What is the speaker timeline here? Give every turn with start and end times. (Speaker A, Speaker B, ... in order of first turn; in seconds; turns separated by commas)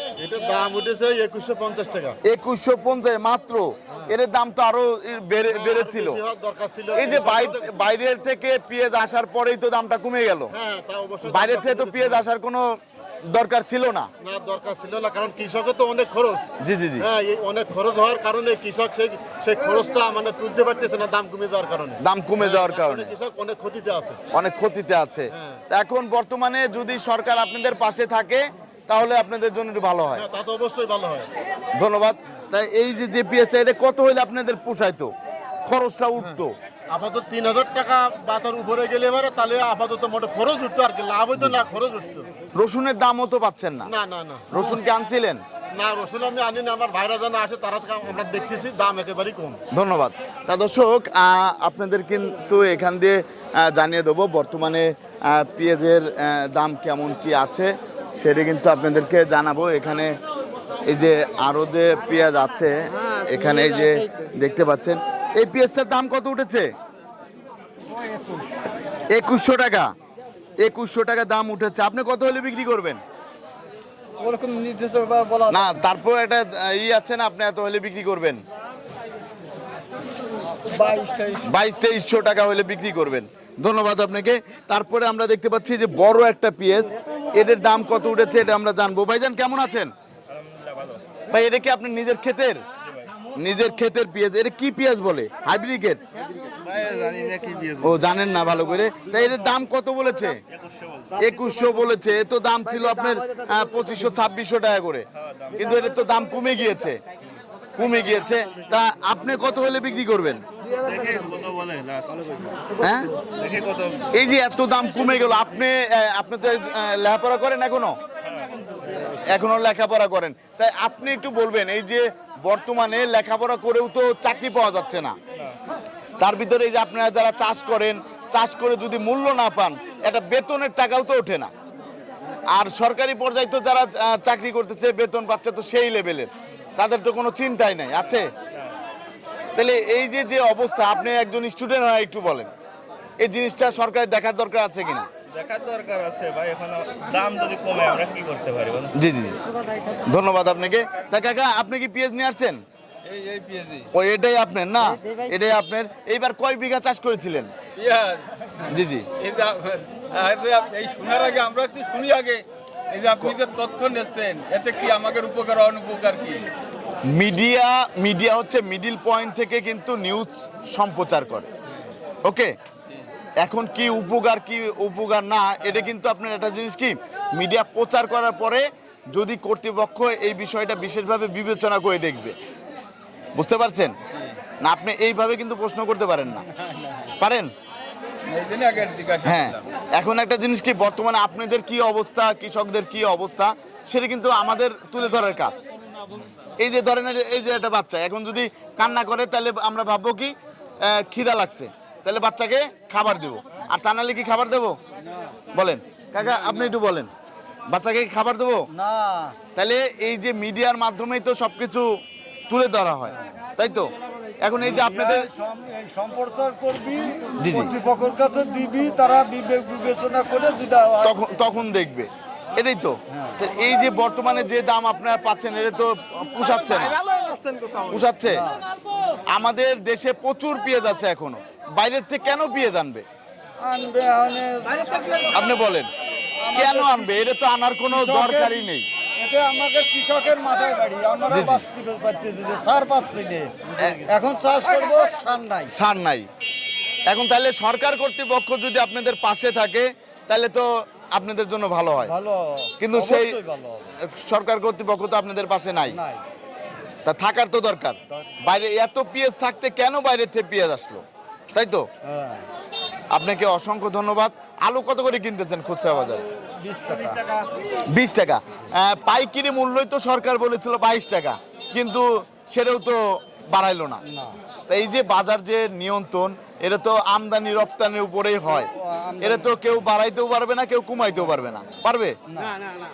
Speaker A: 0.2-2.2, Speaker B: 2.2-6.2, Speaker A: 5.5-7.7, Speaker B: 6.9-10.5, Speaker A: 10.5-12.2, Speaker B: 11.2-12.7, Speaker B: 13.3-14.1, Speaker A: 14.2-24.2, Speaker B: 16.6-17.1, Speaker B: 22.0-23.1, Speaker B: 24.3-30.2, Speaker A: 30.1-31.3, Speaker B: 31.7-35.1, Speaker B: 35.6-36.5, Speaker A: 36.9-42.3, Speaker B: 42.5-43.9, Speaker A: 43.8-44.5, Speaker B: 44.5-45.4, Speaker A: 45.7-49.6, Speaker B: 49.7-60.2, Speaker B: 60.9-66.7, Speaker B: 69.1-69.9, Speaker B: 70.6-73.0, Speaker C: 74.2-75.5, Speaker B: 75.5-78.4, Speaker C: 80.7-81.4, Speaker B: 81.4-89.9, Speaker D: 90.3-91.0, Speaker B: 91.3-92.6, Speaker B: 93.3-96.0, Speaker D: 96.7-97.8, Speaker B: 97.8-100.4, Speaker D: 100.5-101.2, Speaker B: 101.2-107.0, Speaker D: 105.2-105.6, Speaker B: 107.8-110.4, Speaker D: 110.8-112.6, Speaker B: 112.8-113.1, Speaker D: 113.3-114.1, Speaker B: 114.1-118.0, Speaker D: 118.3-119.0, Speaker B: 119.1-125.2, Speaker B: 126.2-131.5, Speaker B: 132.5-138.3, Speaker B: 139.6-142.5, Speaker B: 143.2-145.1, Speaker D: 145.3-148.9, Speaker B: 148.9-149.4, Speaker B: 150.0-152.6, Speaker C: 153.0-153.9, Speaker B: 153.9-157.5, Speaker C: 157.8-158.2, Speaker B: 158.7-159.1, Speaker C: 159.2-166.5, Speaker B: 167.1-171.5, Speaker B: 172.2-172.5, Speaker B: 173.4-182.4, Speaker B: 183.3-183.9, Speaker B: 184.6-186.5, Speaker B: 187.2-187.5, Speaker C: 188.3-189.6, Speaker B: 189.2-195.5, Speaker B: 196.6-204.8, Speaker B: 205.5-207.1, Speaker B: 207.7-208.7, Speaker E: 208.7-209.3, Speaker B: 209.5-211.8, Speaker B: 212.5-213.9, Speaker B: 214.4-215.3, Speaker E: 214.8-217.2, Speaker B: 217.4-217.8, Speaker E: 217.8-221.0, Speaker B: 221.0-227.0, Speaker C: 227.1-227.8, Speaker B: 227.8-228.5, Speaker B: 229.3-233.0, Speaker E: 233.6-234.7, Speaker B: 235.3-235.9, Speaker E: 236.4-236.9, Speaker B: 236.5-238.8, Speaker E: 238.0-238.3, Speaker E: 239.2-243.5, Speaker B: 241.3-241.7, Speaker B: 243.8-244.1, Speaker E: 244.1-245.7, Speaker B: 245.7-246.3, Speaker B: 247.1-252.2, Speaker E: 252.2-252.7, Speaker B: 252.8-253.4, Speaker E: 253.3-253.8, Speaker B: 254.0-256.0, Speaker B: 257.0-261.9, Speaker E: 262.1-262.4, Speaker B: 263.1-266.3, Speaker E: 266.5-267.4, Speaker B: 267.9-274.0, Speaker B: 274.7-282.2, Speaker E: 278.8-279.2